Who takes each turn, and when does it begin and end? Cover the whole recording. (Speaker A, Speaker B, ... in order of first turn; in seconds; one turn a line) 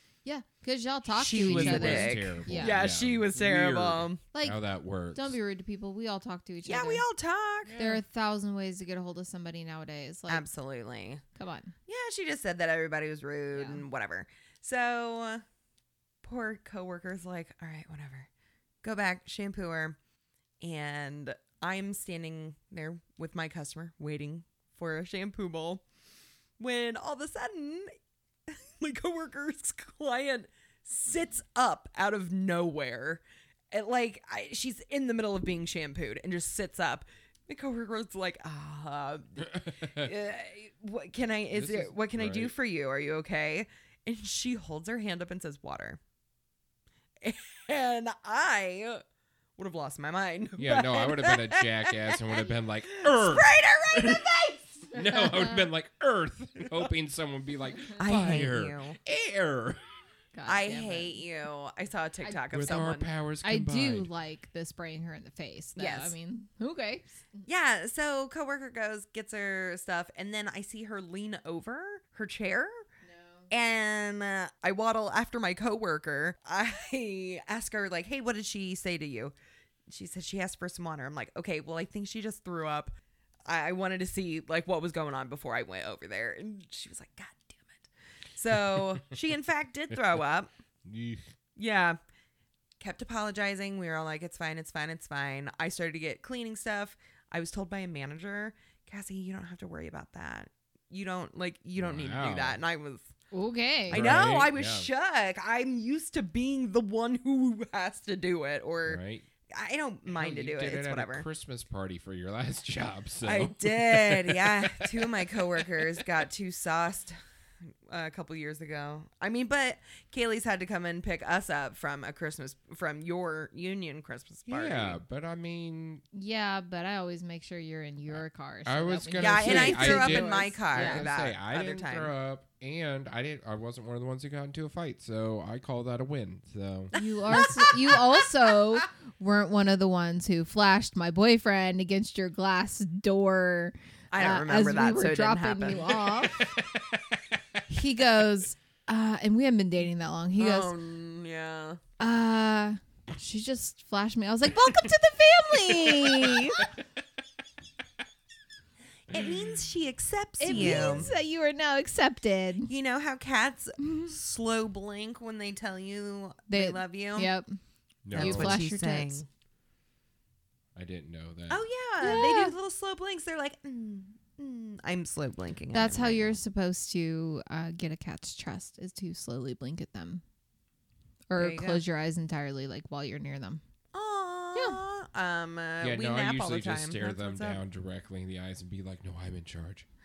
Speaker A: 0.2-2.8
Speaker B: 1.2-4.2
Speaker C: 1.4-5.3
Speaker A: 4.3-4.6
Speaker A: 5.1-7.1
Speaker B: 6.6-7.8
Speaker C: 7.6-8.0
Speaker A: 7.8-10.4
Speaker B: 10.3-11.2
Speaker A: 11.4-11.7
Speaker B: 11.9-15.4
Speaker A: 13.5-13.8
Speaker B: 16.2-18.3
Speaker B: 18.8-20.0
Speaker B: 20.6-25.9
Speaker B: 26.6-27.9
Speaker B: 28.5-46.0
Speaker C: 39.5-40.1
Speaker C: 41.5-42.5
Speaker B: 47.2-49.0
Speaker B: 49.6-55.1
Speaker C: 50.6-54.2
Speaker C: 54.9-59.8
Speaker B: 58.0-59.0
Speaker A: 60.4-61.2
Speaker B: 60.5-63.1
Speaker C: 62.5-64.1
Speaker A: 63.4-67.5
Speaker B: 65.8-66.1
Speaker B: 67.5-72.8
Speaker A: 73.0-73.5
Speaker B: 73.5-79.3
Speaker B: 79.9-83.0
Speaker B: 83.5-90.5
Speaker C: 90.8-91.3
Speaker B: 91.6-92.0
Speaker B: 92.8-103.1
Speaker C: 101.8-102.6
Speaker A: 103.3-104.1
Speaker C: 103.9-104.9
Speaker B: 103.9-111.2
Speaker C: 108.8-109.2
Speaker C: 110.1-116.1
Speaker B: 113.2-117.2
Speaker B: 117.9-125.0
Speaker C: 124.5-126.0
Speaker A: 126.1-131.1
Speaker C: 128.1-136.9
Speaker B: 129.2-132.1
Speaker B: 136.9-138.8
Speaker A: 136.9-146.6
Speaker B: 144.1-146.6
Speaker A: 147.7-150.7
Speaker B: 150.4-151.8
Speaker A: 152.0-156.7
Speaker B: 159.1-161.1
Speaker A: 160.4-162.7
Speaker C: 160.5-161.2
Speaker B: 162.7-167.3
Speaker A: 163.8-164.1
Speaker A: 166.5-167.5
Speaker C: 168.1-168.6
Speaker B: 168.1-169.3
Speaker A: 168.1-169.2
Speaker C: 170.8-171.6
Speaker B: 171.5-176.4
Speaker A: 172.0-172.6
Speaker A: 175.7-180.2
Speaker A: 181.3-183.6
Speaker B: 181.4-181.8
Speaker B: 183.9-187.6
Speaker C: 185.8-189.9